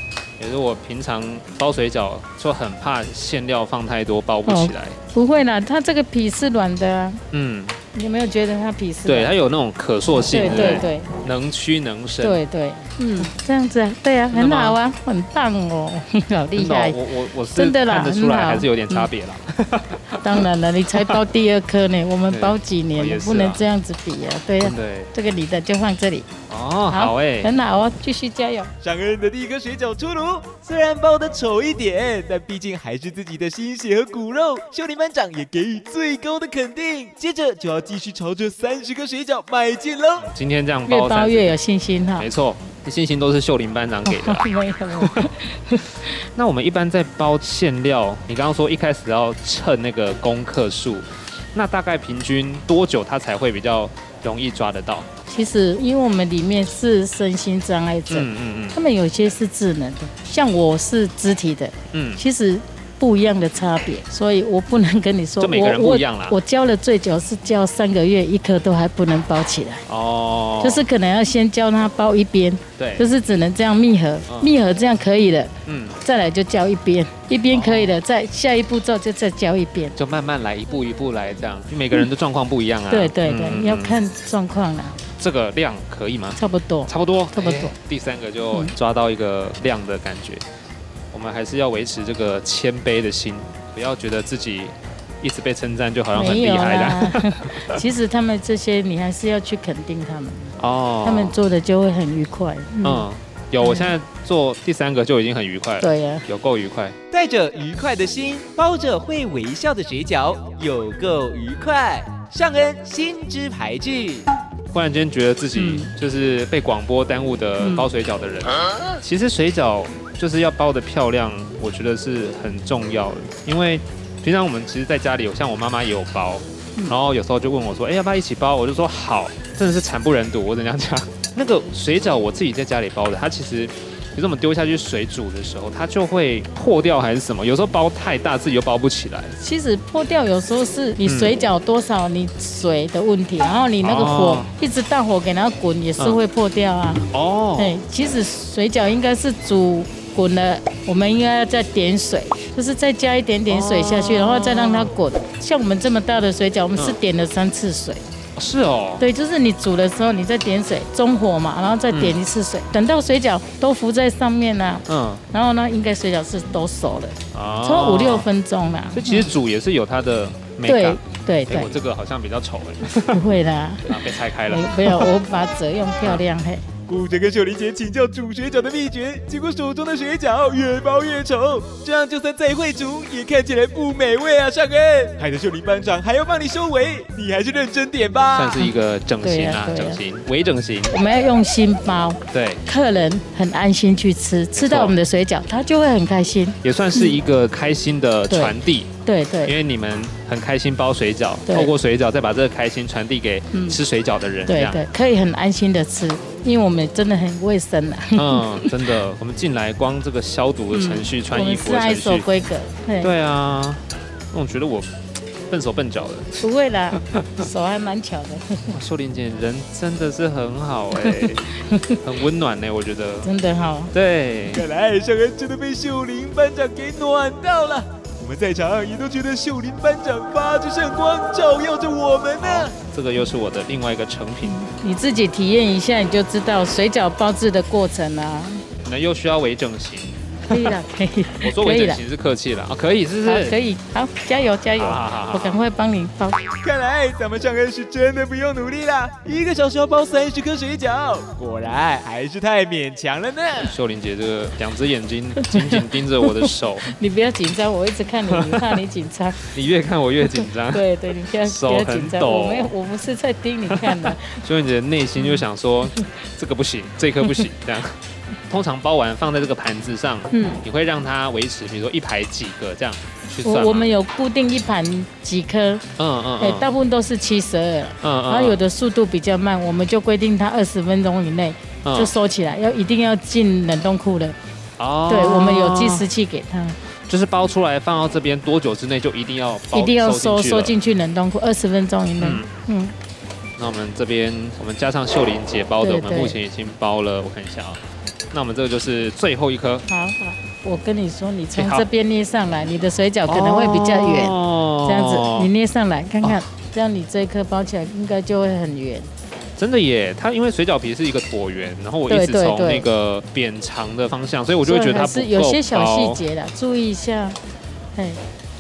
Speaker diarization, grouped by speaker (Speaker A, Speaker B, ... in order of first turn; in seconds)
Speaker A: 0.4-5.0, 7.3-7.8, 9.1-12.4, 14.3-14.8, 16.6-20.1, 22.3-23.6, 24.6-25.1, 26.5-27.5, 40.3-41.6, 42.2-45.3, 46.4-55.1, 58.1-58.8, 61.9-62.2, 65.4-66.4, 69.9-70.8, 72.8-73.1, 74.3-74.5, 75.7-76.0, 77.5-77.9, 80.0-84.0, 85.2-90.4, 91.1-97.8, 100.6-101.4, 102.8-107.0, 114.7-139.3, 141.0-141.4, 143.8-144.5, 147.1-147.8, 153.5-154.9, 158.4-159.1, 161.9-162.2, 164.9-165.2, 167.3-168.3, 168.9-173.2, 173.9-175.1, 188.3-191.0, 192.3-192.6, 194.6-195.0, 196.6-198.9, 199.4-204.8, 208.2-212.3, 213.0-214.9, 215.5-216.3, 218.7-221.4, 222.0-223.3, 223.9-224.7, 232.4-234.6, 238.8-240.8, 241.4-243.6, 244.8-245.6, 253.6-256.9, 258.3-258.8, 259.5-260.9, 261.4-262.7, 263.7-273.9, 276.0-276.7, 278.0-278.6, 281.8-282.1, 284.8-286.1, 287.1-290.8, 292.2-292.5, 293.6-299.9, 301.6-301.9, 303.3-305.5, 309.6-316.2
Speaker B: 4.5-7.2, 7.9-9.3, 10.2-11.1, 12.2-17.0, 17.5-19.1, 20.2-26.3, 26.9-28.7, 40.9-42.3, 44.0-46.1, 55.3-69.8, 70.6-80.0, 82.9-85.0, 86.4-87.7, 96.1-103.1, 103.6-103.9, 105.8-106.2, 115.6-115.9, 117.6-117.9, 139.4-147.1, 147.6-158.0, 159.0-169.3, 170.7-171.7, 173.1-176.7, 188.6-190.0, 190.9-197.2, 198.3-199.6, 201.5-201.7, 203.5-203.8, 204.5-208.8, 210.7-213.1, 216.4-218.8, 221.0-222.0, 223.2-223.9, 234.4-238.6, 240.5-242.0, 243.2-246.4, 255.4-259.4, 260.4-264.4, 270.3-270.6, 273.4-275.8, 276.4-284.4, 285.1-286.8, 289.7-292.9, 295.8-296.4, 299.9-309.1, 312.1-312.9, 314.6-317.4
Speaker C: 28.8-40.3, 107.1-114.3, 176.9-188.6, 224.5-232.7, 246.6-253.7